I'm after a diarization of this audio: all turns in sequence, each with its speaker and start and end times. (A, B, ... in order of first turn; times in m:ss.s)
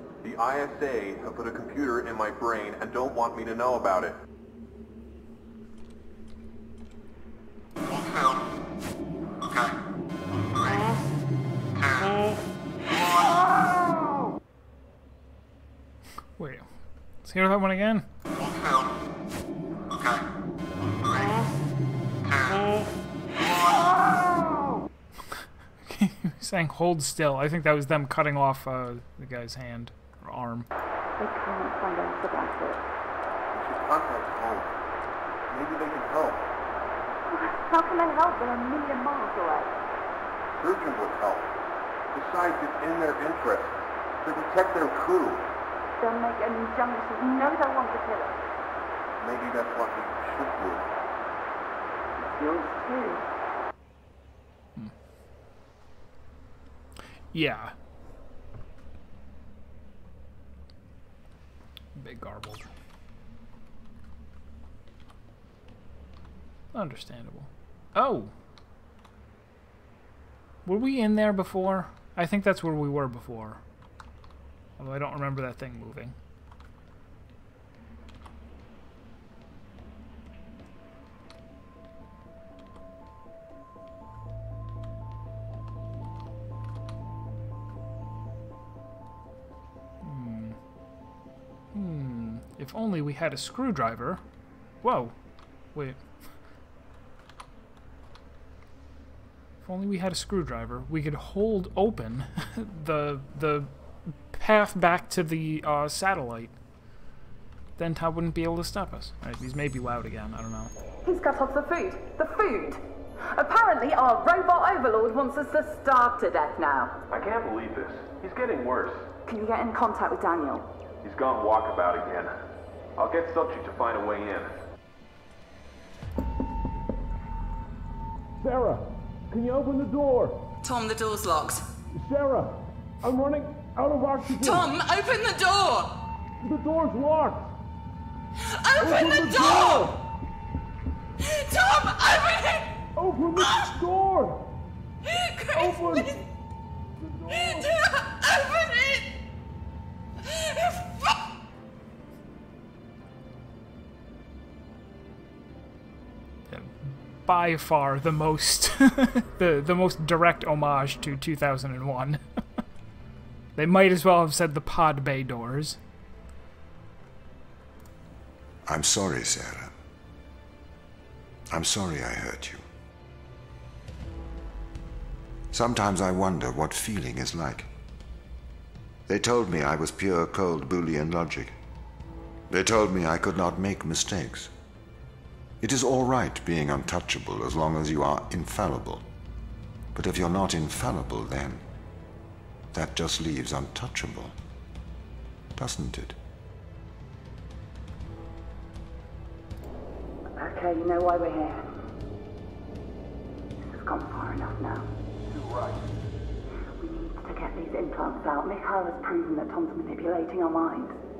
0:00.2-0:04.2 A
0:16.4-0:16.7 B
0:17.2-0:18.1 B
0:25.4-0:30.7 B
0:31.2-0:32.8 C
0:33.5-0:34.7 A
0:35.5-0:36.5 A
0:37.3-0:39.8 C
0:40.6-0:41.5 A
0:42.1-0:45.5 A
0:46.0-0:48.4 C
0:49.2-0:50.9 A
0:52.2-0:53.2 C
0:57.3-0:57.7 B
1:01.9-1:02.7 B
1:06.7-1:08.3 B
1:10.6-1:13.6 B
1:14.8-1:16.2 B
1:30.0-1:30.6 B
1:31.7-1:34.2 B
1:34.8-1:35.2 B
1:35.7-1:36.0 B
1:39.6-1:46.5 B
1:47.8-1:50.7 B
1:51.0-1:57.0 C
1:57.1-1:59.1 D
1:59.3-2:00.7 C
2:01.0-2:02.3 D
2:03.0-2:04.6 D
2:08.4-2:10.5 E
2:10.7-2:11.6 F
2:11.9-2:14.7 E
2:14.4-2:16.0 F
2:16.4-2:17.5 E
2:18.4-2:19.9 F
2:18.8-2:20.0 E
2:21.2-2:23.7 F
2:22.9-2:24.6 E
2:25.0-2:26.2 F
2:25.5-2:26.2 E
2:27.0-2:27.7 E
2:27.3-2:29.1 F
2:30.3-2:31.2 F
2:36.5-2:42.2 B
2:43.6-2:45.8 B
2:48.7-2:49.7 G
2:51.5-2:52.6 G
2:55.5-2:57.7 G
2:59.1-3:01.6 G
3:02.5-3:04.5 G
3:05.6-3:09.0 G
3:09.9-3:11.6 G
3:12.7-3:14.4 G
3:15.5-3:16.2 G
3:20.4-3:21.7 C
3:23.6-3:24.9 C
3:25.3-3:25.9 A
3:26.8-3:31.0 C